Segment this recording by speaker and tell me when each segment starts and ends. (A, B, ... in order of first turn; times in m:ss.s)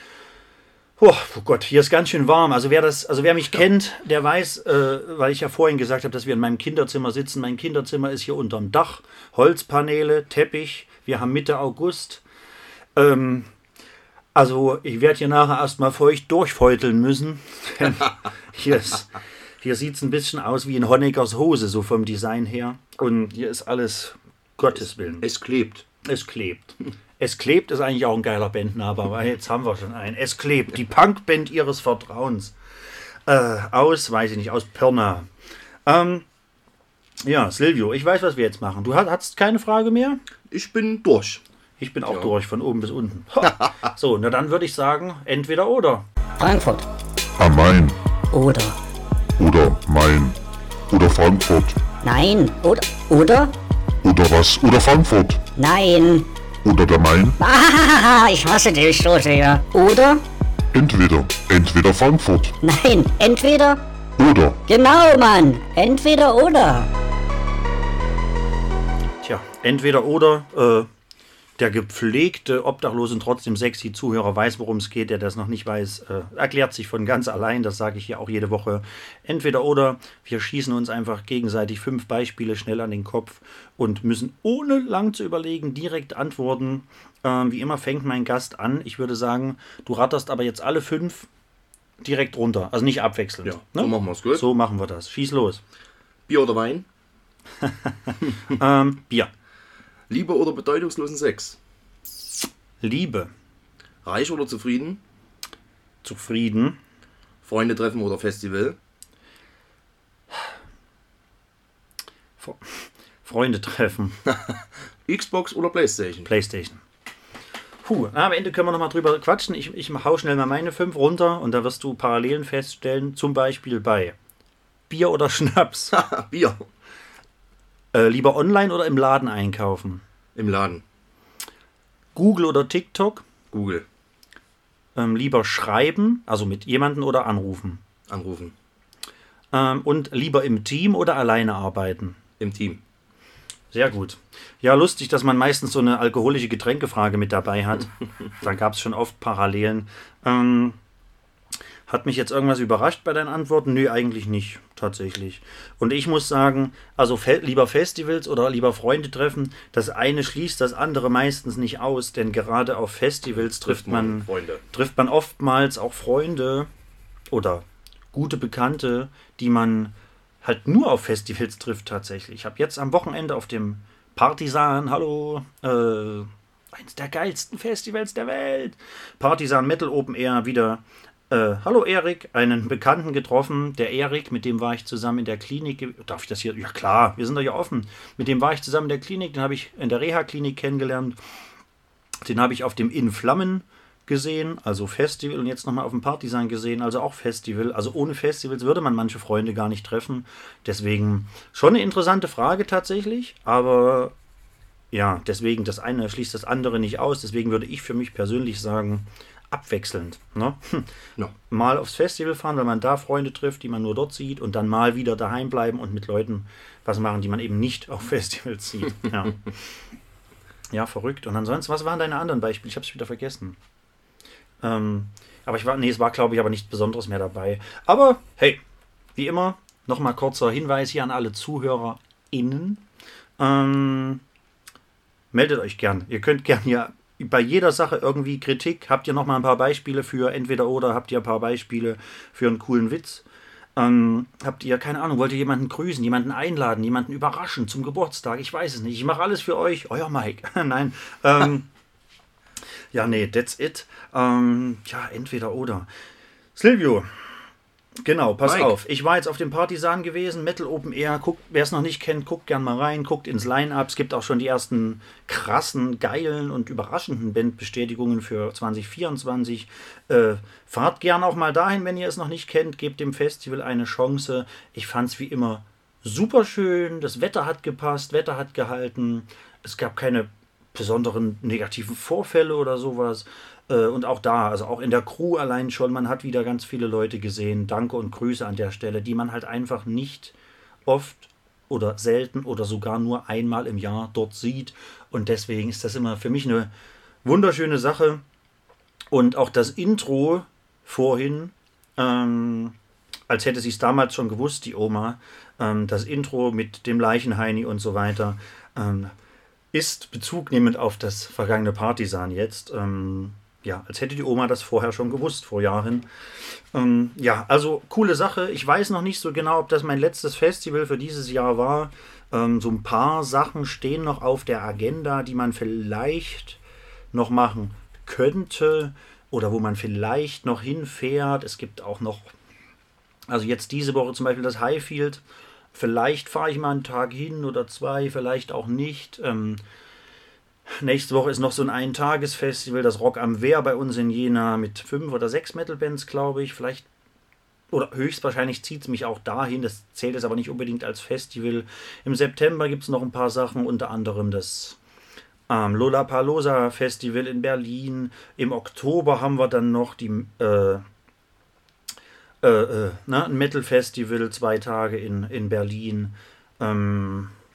0:01.0-0:12.2 A
0:13.0-0:13.5 A
0:14.4-0:25.2 A
0:25.2-0:25.9 B
0:26.0-0:32.5 A
0:33.3-0:35.3 A
0:35.9-0:36.3 A
0:37.2-0:40.2 A
0:40.5-0:41.4 B
0:41.8-0:46.1 A
0:46.4-0:46.9 C
0:47.4-0:48.0 D
0:48.3-0:48.8 C
0:49.4-0:50.4 D
0:50.9-0:51.8 D
0:52.0-0:53.6 C
0:54.0-0:55.4 D
0:55.6-0:56.3 C
0:56.6-0:57.4 D
0:57.4-1:00.2 C
1:00.7-1:02.5 D
1:02.6-1:03.8 C
1:04.2-1:04.6 D
1:04.7-1:06.9 C
1:09.2-1:10.9 A
1:11.6-1:31.3 A
1:32.0-1:35.6 A
1:33.4-1:34.5 B
1:36.3-1:36.9 B
1:37.7-1:39.3 A
1:40.1-1:41.6 B
1:42.8-1:43.3 A
1:44.0-1:45.0 B
1:46.0-1:46.8 A
1:47.4-1:48.8 B
1:52.4-1:54.2 A
1:55.1-1:56.3 B
1:56.3-1:56.8 A
1:57.8-2:04.2 A
2:04.9-2:06.0 A
2:05.9-2:06.7 B
2:07.9-2:10.0 A
2:10.4-2:10.8 B
2:12.2-2:13.2 A
2:13.5-2:13.8 B
2:15.0-2:17.8 A
2:18.1-2:18.5 B
2:19.5-2:22.2 A
2:22.4-2:22.8 B
2:23.7-2:30.8 A
2:31.9-2:46.7 A
2:43.4-2:44.6 B
2:47.3-3:11.2 A
3:12.2-3:24.1 A
3:24.9-3:30.9 A
3:31.4-3:39.5 A
3:40.7-3:43.6 A
3:44.6-3:48.6 A
3:49.2-3:52.8 A
3:53.4-3:54.2 A
3:55.3-4:03.2 A
4:03.8-4:11.7 A
4:12.9-4:15.9 A
4:16.6-4:17.1 A
4:18.0-4:50.4 A
4:18.5-4:18.7 B
4:50.9-4:56.7 A
4:57.2-4:58.2 A
4:59.1-5:02.8 A
5:03.3-5:09.1 A
5:09.7-5:16.1 A
5:16.7-5:26.6 A
5:27.1-5:32.3 A
5:33.3-5:35.2 A
5:35.7-5:39.6 A
5:40.8-5:46.9 A
5:47.7-5:54.8 A
5:55.5-6:00.8 A
6:02.4-6:07.3 A